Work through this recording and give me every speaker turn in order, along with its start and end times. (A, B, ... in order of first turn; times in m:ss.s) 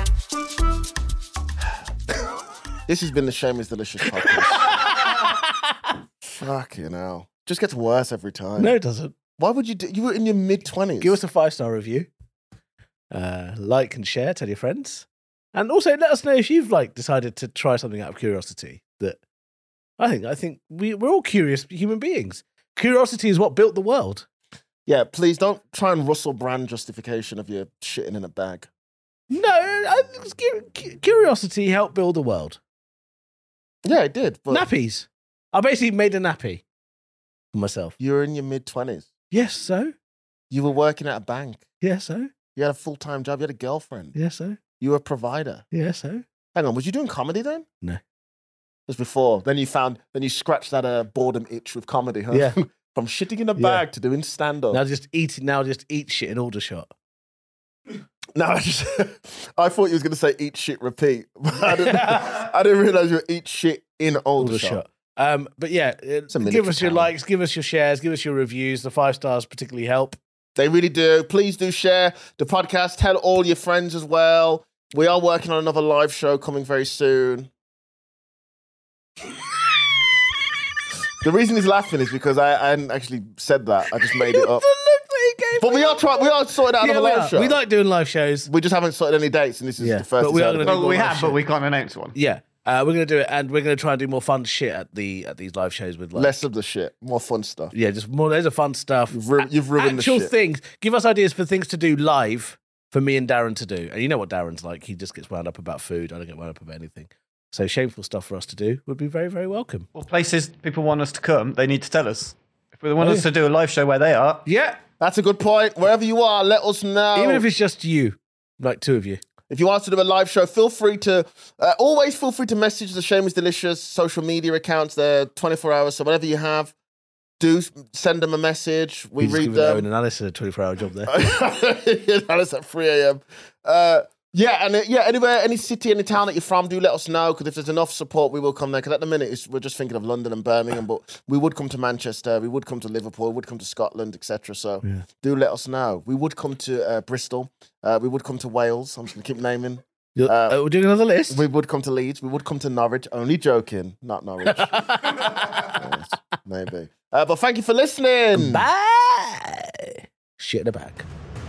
0:02.9-0:04.8 A
0:04.5-0:05.3 B
0:06.4-0:08.8 A
0:08.6-0:09.1 B
0:09.4-0:11.2 A
0:11.0-0:12.1 B
0:13.1-0:19.2 B
0:20.0-0:24.3 B
0:24.9-0:28.7 A
0:29.3-0:32.6 B
0:33.8-0:34.7 A
0:34.5-0:36.6 B
0:37.5-0:38.0 B
0:38.0-0:39.1 A
0:39.3-0:39.9 B
0:40.5-0:41.6 A
0:41.8-0:42.3 B
0:42.6-0:44.1 A
0:44.1-0:44.6 B
0:44.8-0:45.6 A
0:45.7-0:46.2 B
0:46.5-0:47.7 A
0:48.9-0:54.8 A
0:52.3-0:52.6 B
0:53.6-0:53.8 B
0:54.7-0:56.9 B
0:58.4-1:04.8 A
1:01.6-1:02.3 B
1:04.4-1:10.2 B
1:06.3-1:07.1 A
1:10.6-1:17.5 A
1:21.2-1:24.7 A
1:24.0-1:28.5 B
1:25.6-1:27.6 A
1:28.5-1:30.8 A
1:29.8-1:31.4 B
1:30.6-1:32.1 C
1:32.1-1:36.4 B
1:36.1-1:37.7 A
1:37.7-1:49.9 B
1:39.1-1:40.3 A
1:50.0-1:54.5 C
1:53.0-1:53.3 B
1:54.5-1:54.8 B
1:55.0-1:57.5 A
1:57.1-1:59.2 B
1:59.5-2:06.7 A
2:07.4-2:09.9 A
2:09.2-2:11.1 B
2:11.1-2:30.6 A
2:30.1-2:31.4 B
2:31.3-2:38.7 A
2:34.5-2:35.9 B
2:38.3-2:41.1 B